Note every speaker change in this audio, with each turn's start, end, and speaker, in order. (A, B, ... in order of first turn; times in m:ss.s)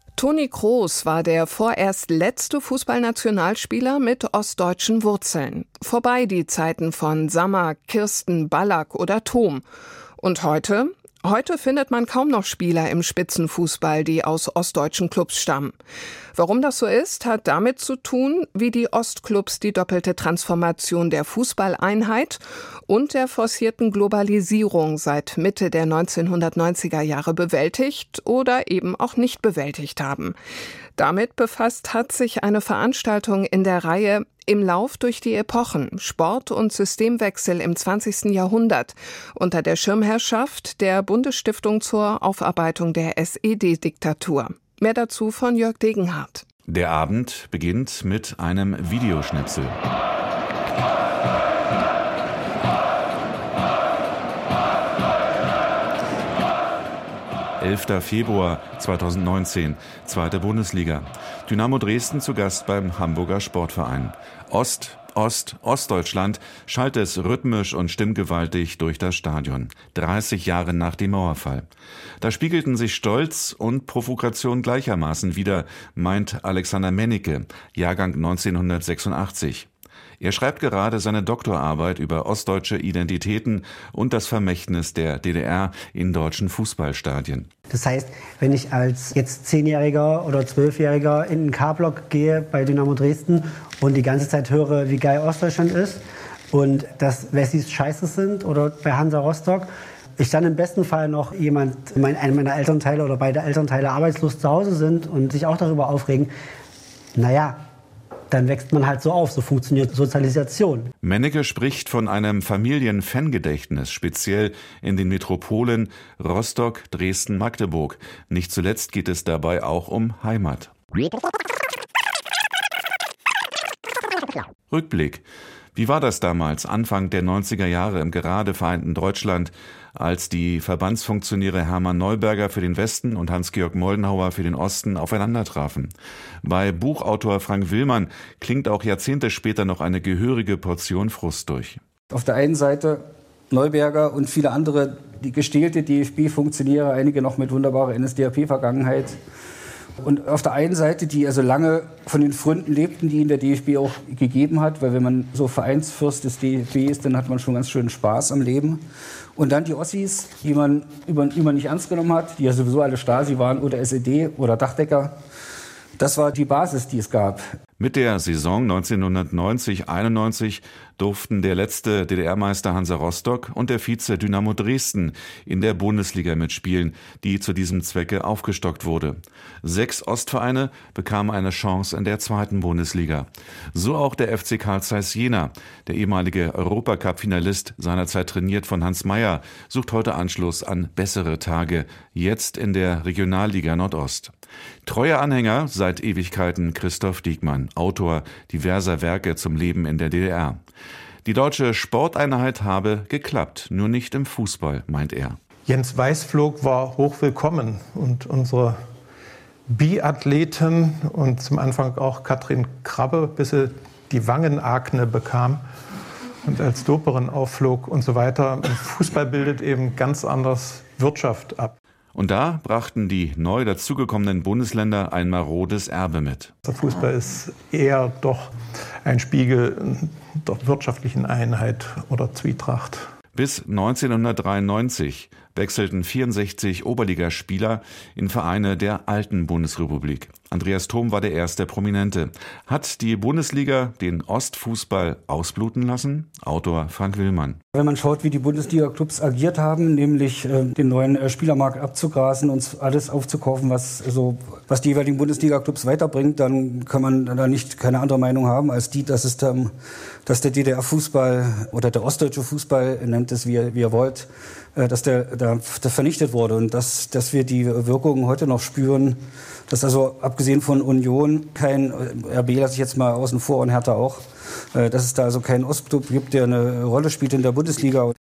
0:00.2-0:09.6 A
0:10.2-0:15.8 A
0:16.3-0:30.3 A
0:31.0-0:46.4 A
0:46.7-0:49.8 B
0:57.6-1:11.7 B
1:12.2-1:19.7 B
1:20.2-1:27.5 B
1:27.7-1:46.3 C
1:47.2-1:47.6 C
1:48.3-1:50.9 C
1:51.0-2:00.7 B
2:04.7-2:05.2 B
2:05.7-2:15.9 B
2:16.4-2:21.8 B
2:22.1-2:29.2 D
2:30.0-2:38.8 D
2:39.4-2:45.1 D
2:46.0-2:47.5 D
2:47.8-3:14.3 B
3:14.8-3:20.6 B
3:21.2-3:25.4 B
3:25.7-3:28.8 E
3:29.7-3:35.6 E
3:36.4-3:41.7 E
3:42.1-3:46.5 B
3:46.7-3:48.5 E
3:49.0-3:53.0 E
3:53.3-4:07.6 B
4:07.7-4:19.7 D
4:20.2-4:38.1 D